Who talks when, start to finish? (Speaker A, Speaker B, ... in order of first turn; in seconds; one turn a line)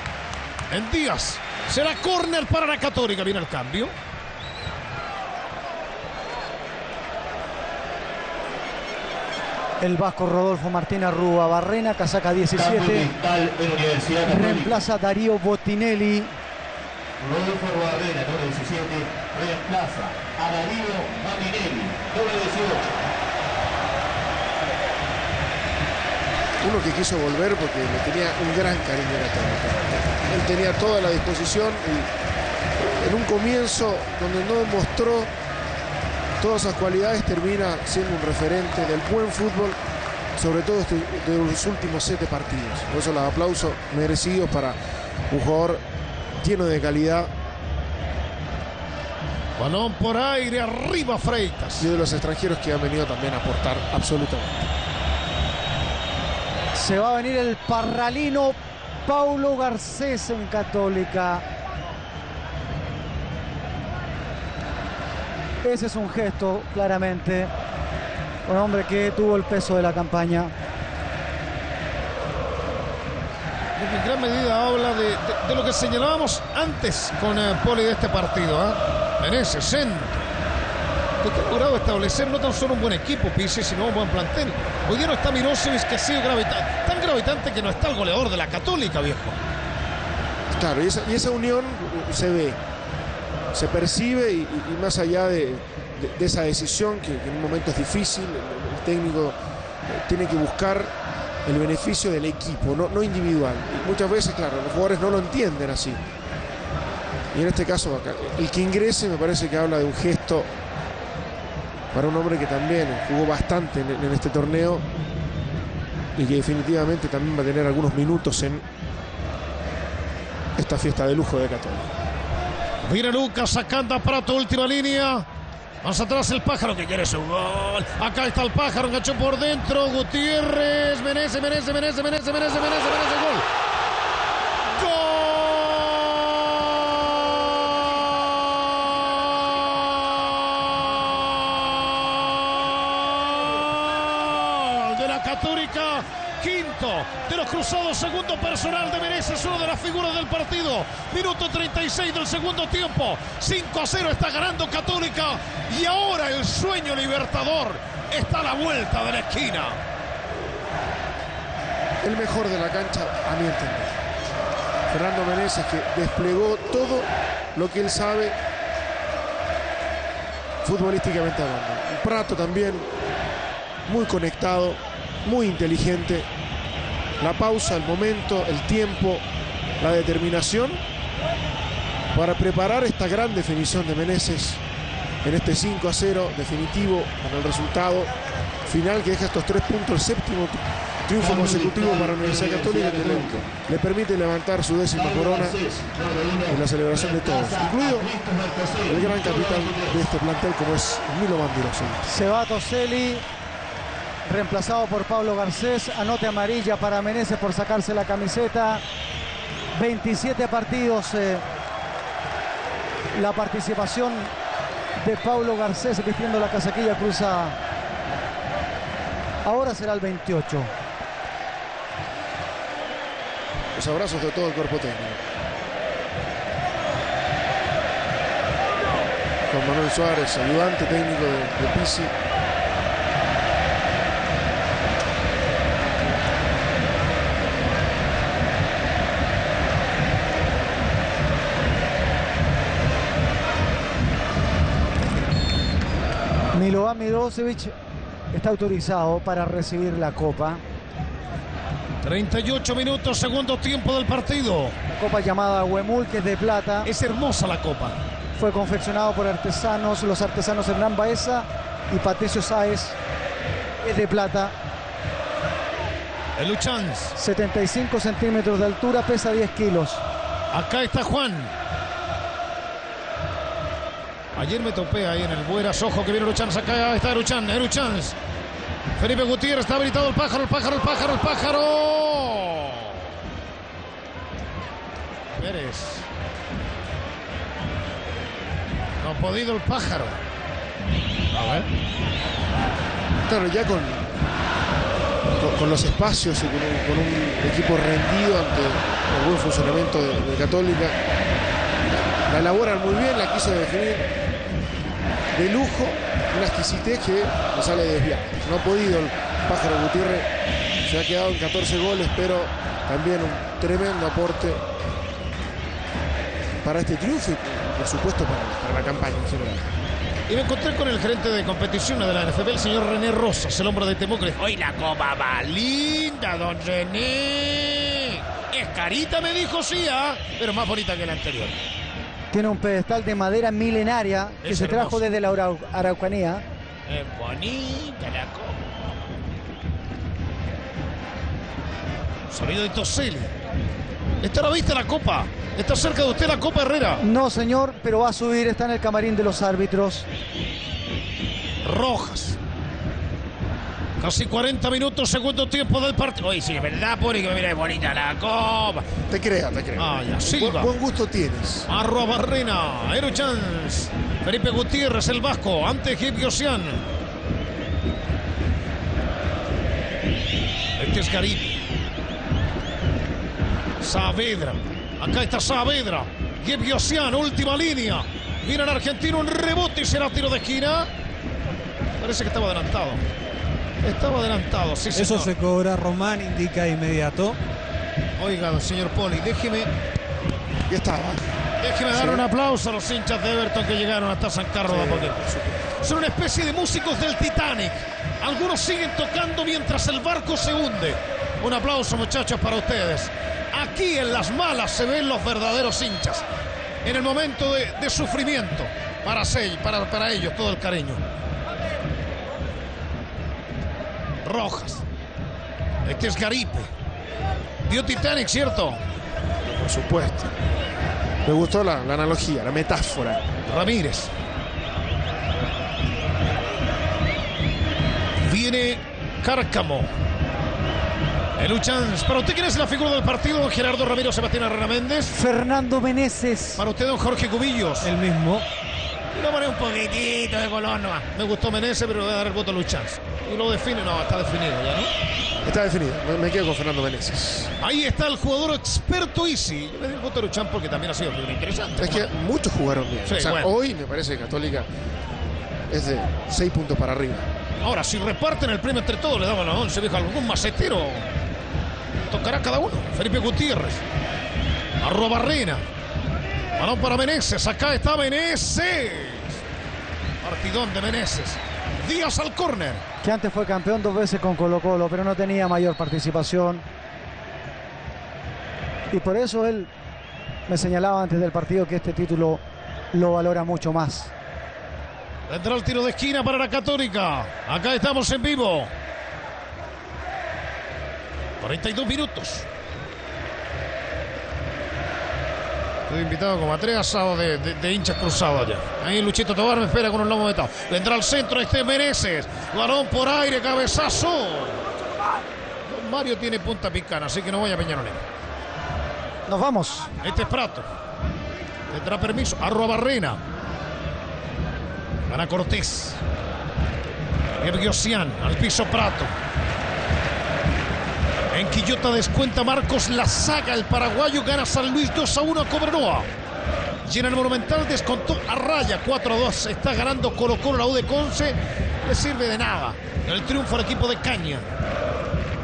Speaker A: 0.7-3.9
Speaker B: 9.8-13.1
Speaker C: 12.5-14.8
Speaker B: 14.2-16.4
Speaker C: 17.2-22.9
Speaker D: 26.6-32.1
Speaker D: 32.8-35.3
Speaker D: 36.4-39.8
Speaker D: 40.4-44.8
Speaker D: 45.3-45.8
Speaker D: 46.4-47.3
Speaker A: 49.6-51.9
Speaker D: 51.8-54.7
Speaker B: 56.7-61.4
Speaker B: 65.6-67.5
Speaker B: 68.5-70.5
Speaker A: 73.8-80.2
Speaker A: 81.2-89.4
Speaker D: 90.5-92.6
Speaker D: 93.5-99.3
Speaker D: 99.9-100.9
Speaker D: 101.4-106.0
Speaker D: 107.3-110.5
Speaker D: 111.9-114.8
Speaker D: 116.1-118.6
Speaker D: 120.5-121.9
Speaker A: 122.8-125.2
Speaker A: 125.8-133.4
Speaker A: 134.7-159.8
Speaker D: 162.0-163.9
Speaker D: 164.9-168.4
Speaker D: 170.6-172.9
Speaker D: 173.8-176.3
Speaker D: 177.2-179.2
Speaker D: 179.8-180.8
Speaker D: 182.1-184.6
Speaker D: 185.2-188.1
Speaker D: 188.7-195.6
Speaker C: 191.2-193.4
Speaker C: 194.9-200.0
Speaker D: 196.5-198.1
Speaker D: 198.9-202.1
Speaker B: 202.1-203.2
Speaker B: 204.2-208.8
Speaker B: 209.7-211.4
Speaker B: 213.1-214.3
Speaker B: 215.0-217.6
Speaker B: 219.4-220.7
Speaker D: 223.7-225.2
Speaker D: 229.5-232.1
Speaker B: 246.5-247.7
Speaker B: 248.3-250.6
Speaker A: 252.0-254.7
Speaker B: 254.9-256.9
Speaker A: 256.8-258.0
Speaker B: 258.4-263.0
Speaker B: 263.8-264.6
Speaker A: 266.4-267.1
Speaker B: 267.2-270.0
Speaker A: 270.5-271.5
Speaker A: 274.3-278.1
Speaker A: 279.0-283.0
Speaker A: 285.3-286.1
Speaker A: 289.0-290.2
Speaker A: 291.3-291.7
Speaker D: 293.2-294.1
Speaker D: 295.4-301.0
Speaker D: 302.3-304.1
Speaker D: 305.3-310.3
Speaker D: 310.8-314.6
Speaker D: 316.6-319.7
Speaker A: 320.3-331.6
Speaker B: 332.3-336.4
Speaker A: 334.4-335.1
Speaker A: 336.9-338.6
Speaker A: 342.3-343.3
Speaker A: 344.2-347.0
Speaker B: 347.0-350.1
Speaker A: 351.6-352.4
Speaker A: 354.0-358.9
Speaker D: 359.1-361.7
Speaker A: 359.8-360.7
Speaker A: 361.7-366.8
Speaker A: 370.8-371.6
Speaker A: 373.8-380.9
Speaker A: 382.0-383.0
Speaker A: 383.8-385.3
Speaker E: 384.9-387.4
Speaker A: 388.2-389.7
Speaker D: 390.7-391.2
Speaker A: 391.6-395.2
Speaker D: 391.9-392.2
Speaker D: 394.6-395.8
Speaker A: 395.8-406.2
Speaker A: 406.8-411.0
Speaker A: 414.2-414.8
Speaker A: 415.8-416.7
Speaker A: 417.6-418.8
Speaker D: 419.5-420.3
Speaker D: 421.2-423.2
Speaker A: 423.4-424.1
Speaker A: 428.2-429.9
Speaker A: 431.4-435.2
Speaker B: 435.1-436.6
Speaker A: 436.6-437.9
Speaker E: 437.8-438.5
Speaker A: 439.1-444.9
Speaker D: 445.4-447.5
Speaker A: 447.6-452.1
Speaker D: 451.8-454.7
Speaker A: 453.1-453.5
Speaker D: 455.7-457.3
Speaker A: 457.6-461.1
Speaker A: 462.1-463.8
Speaker A: 464.8-465.6
Speaker A: 466.6-469.4
Speaker A: 470.2-472.8
Speaker B: 473.0-476.6
Speaker B: 478.9-479.7
Speaker B: 480.5-482.4
Speaker B: 482.9-484.1
Speaker A: 485.3-488.7
Speaker A: 491.4-492.5
Speaker A: 495.9-504.6
Speaker A: 505.6-508.0
Speaker B: 509.3-509.9
Speaker A: 510.0-510.7
Speaker A: 511.7-513.2
Speaker A: 515.1-516.0
Speaker A: 517.4-519.1
Speaker A: 521.3-526.1
Speaker A: 526.8-534.5